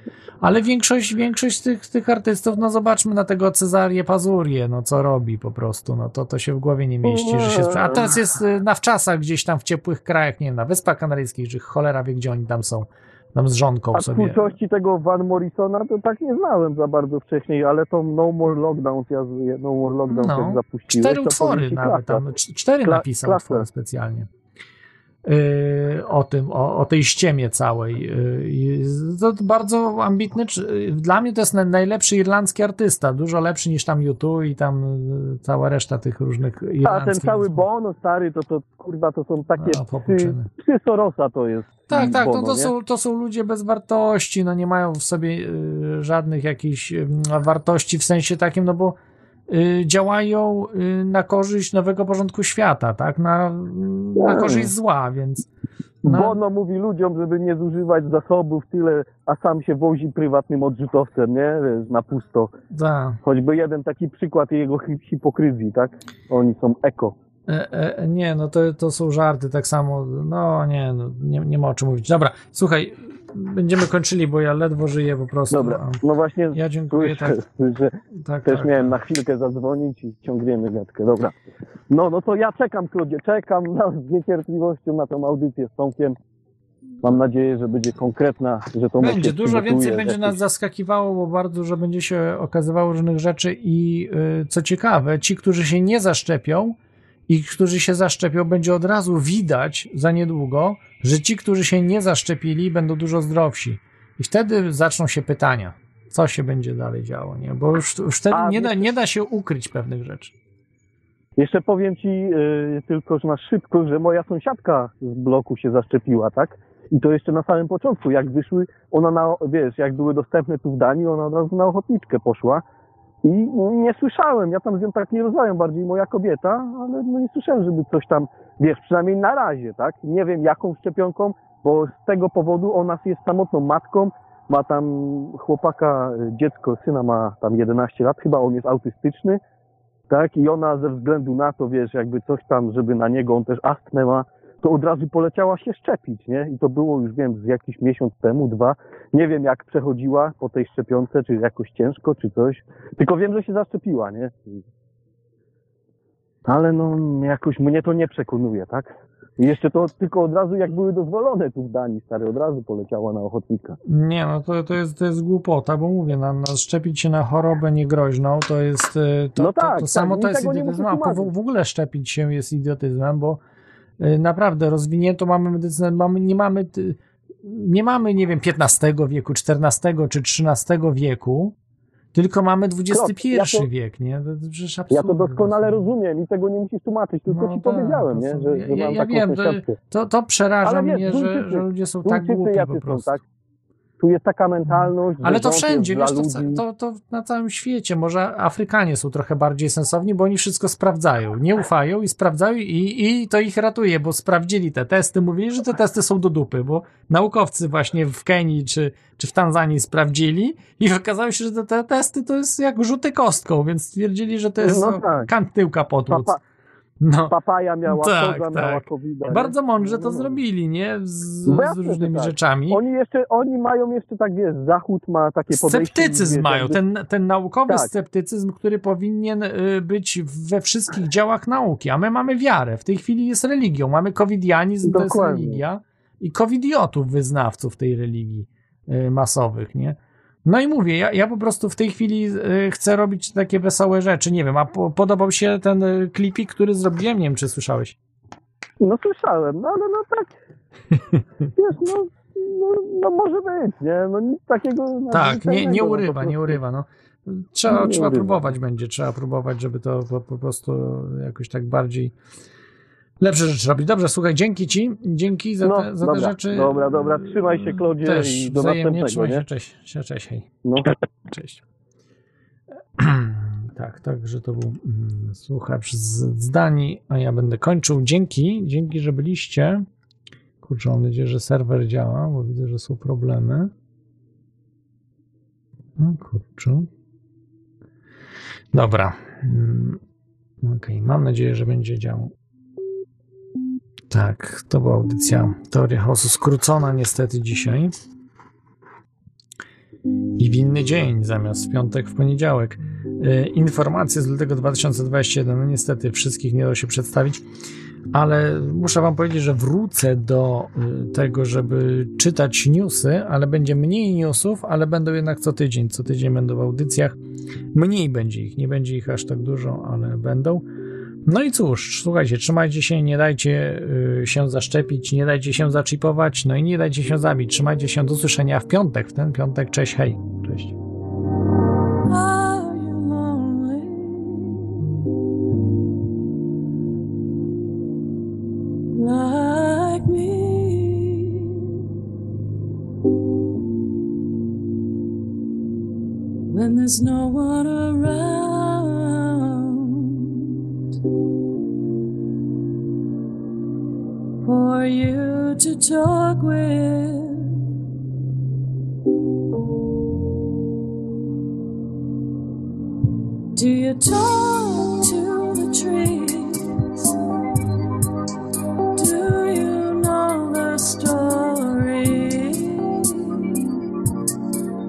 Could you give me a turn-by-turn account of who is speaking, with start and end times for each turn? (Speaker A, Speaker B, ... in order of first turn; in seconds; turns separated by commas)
Speaker A: 0.4-14.5, Speaker B: 7.0-8.2, Speaker B: 13.9-22.3, Speaker A: 20.1-24.3, Speaker B: 22.8-23.7, Speaker A: 25.2-37.6, Speaker B: 36.8-42.7, Speaker A: 39.6-40.5, Speaker A: 41.9-49.0, Speaker A: 49.5-55.5, Speaker B: 54.2-54.7, Speaker A: 56.0-56.4, Speaker B: 56.0-62.5, Speaker A: 62.7-63.2, Speaker B: 63.2-67.1, Speaker A: 67.5-76.0, Speaker B: 75.5-81.3, Speaker A: 76.5-77.4, Speaker A: 78.2-78.9, Speaker B: 81.9-86.2, Speaker B: 87.0-90.4, Speaker A: 89.0-96.8, Speaker A: 97.3-110.3, Speaker B: 108.3-108.9, Speaker B: 111.4-122.6, Speaker B: 123.2-139.4, Speaker B: 140.1-154.6, Speaker B: 156.4-163.8, Speaker A: 163.8-173.4, Speaker B: 169.4-171.3, Speaker A: 174.0-181.5, Speaker A: 182.1-185.9, Speaker B: 182.9-183.7, Speaker B: 184.9-189.8, Speaker A: 187.3-193.2, Speaker B: 190.6-193.2, Speaker B: 194.0-196.6, Speaker A: 194.7-216.3, Speaker B: 214.6-215.3, Speaker B: 216.1-216.4, Speaker A: 217.0-217.3, Speaker B: 217.3-220.4, Speaker A: 217.8-222.8, Speaker B: 221.4-226.8, Speaker A: 225.5-248.0, Speaker B: 234.8-235.6, Speaker B: 248.8-250.3, Speaker B: 251.6-256.6, Speaker A: 255.1-262.1, Speaker B: 257.7-258.5, Speaker A: 263.2-271.6, Speaker B: 265.6-269.4, Speaker B: 270.6-270.9, Speaker A: 273.0-279.9, Speaker A: 280.6-283.7, Speaker A: 286.0-286.9, Speaker A: 288.7-290.0, Speaker A: 290.6-292.3, Speaker A: 294.1-297.9, Speaker A: 300.4-307.4, Speaker A: 308.1-317.2, Speaker A: 317.7-320.6, Speaker A: 321.2-330.7, Speaker C: 332.1-334.6, Speaker C: 338.9-341.6, Speaker C: 346.5-350.2, Speaker C: 354.4-357.6, Speaker C: 363.5-367.0, Speaker C: 368.9-373.6